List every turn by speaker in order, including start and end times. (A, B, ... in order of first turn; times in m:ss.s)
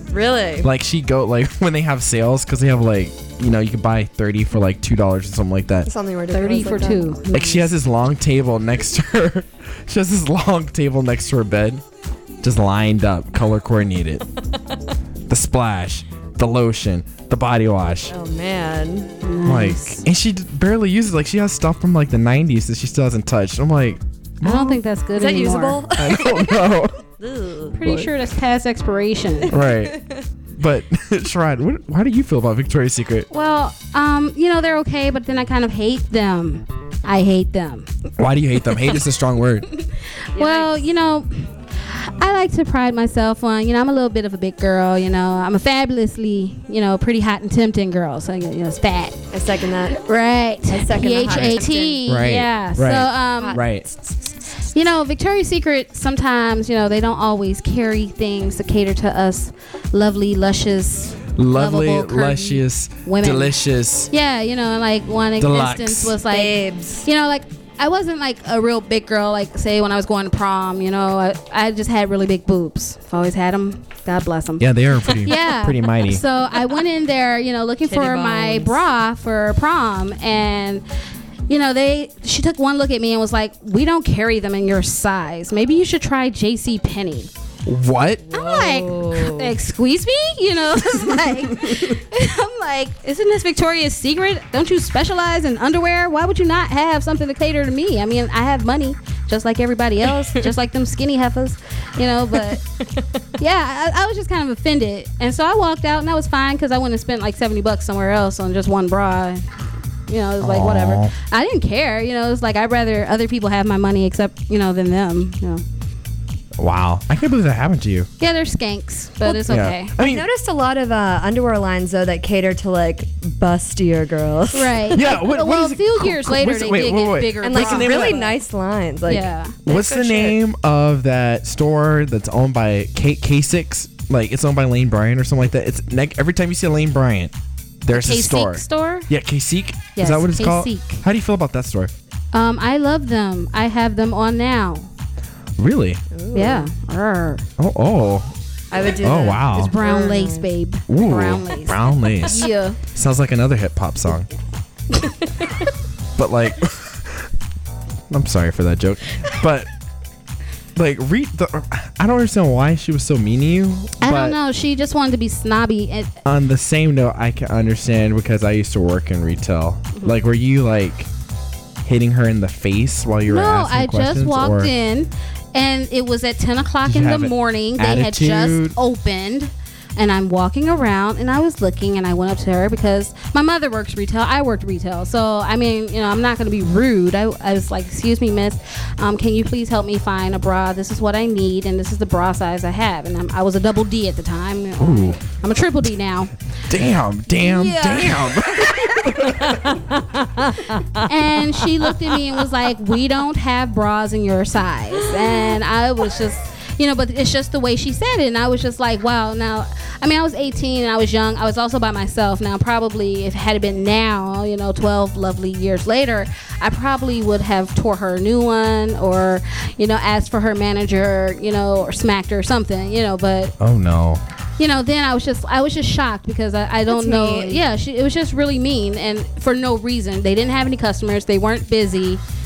0:00.1-0:00.7 A
0:00.6-0:05.9 B
0:05.8-0:07.2 A
0:06.3-0:07.7 C
0:07.3-0:11.8 B
0:12.4-0:14.2 B
0:15.3-0:18.1 B
0:18.1-0:19.1 A
0:19.2-0:20.0 C
0:19.4-0:24.8 B
0:24.4-0:25.8 C
0:25.1-0:27.8 A
0:26.0-0:27.0 B
0:27.8-0:29.5 C
0:29.5-0:30.0 B
0:29.5-0:30.2 A
0:30.6-0:33.3 B
0:33.3-0:37.9 C
0:38.2-0:39.7 B
0:40.3-0:49.3 C
0:40.3-0:40.9 A
0:49.3-0:50.0 A
0:49.9-0:53.6 C
0:50.7-0:52.0 A
0:51.3-0:53.8 B
0:53.4-0:54.3 A
0:54.7-1:03.6 C
1:01.4-1:04.1 B
1:04.1-1:14.7 C
1:05.4-1:06.2 B
1:06.3-1:07.1 A
1:14.6-1:16.2 B
1:15.2-1:20.8 C
1:17.9-1:18.8 A
1:21.5-1:27.3 C
1:27.7-1:28.2 B
1:28.2-1:29.5 A
1:28.3-1:42.6 C
1:42.3-1:43.1 A
1:43.4-1:49.4 C
1:50.1-1:55.6 C
1:50.4-1:51.1 B
1:56.6-1:58.1 B
1:58.2-1:59.9 C
1:59.2-2:05.1 A
1:59.5-2:00.2 B
2:04.5-2:08.3 C
2:04.9-2:08.2 B
2:07.4-2:10.4 A
2:09.1-2:09.6 C
2:09.7-2:17.3 B
2:17.8-2:21.9 B
2:17.9-2:19.1 C
2:20.0-2:21.0 C
2:22.3-2:24.9 C
2:25.6-2:26.0 B
2:26.1-2:26.7 A
2:26.3-2:27.4 C
2:27.6-2:28.3 B
2:28.7-2:30.5 A
2:29.0-2:29.8 B
2:29.5-2:32.8 C
2:30.9-2:34.3 B
2:36.2-2:37.3 B
2:38.1-2:39.7 B
2:40.7-2:44.4 B
2:44.0-2:46.2 C
2:46.2-2:51.1 B
2:51.8-2:54.7 B
2:53.3-3:16.3 C
2:56.8-2:58.8 B
3:14.8-3:15.2 B
3:16.7-3:19.6 B
3:17.3-3:19.0 C
3:19.2-3:21.0 A
3:21.0-3:43.6 C
3:43.6-3:44.2 B
3:44.6-3:52.2 C
3:46.9-3:47.6 A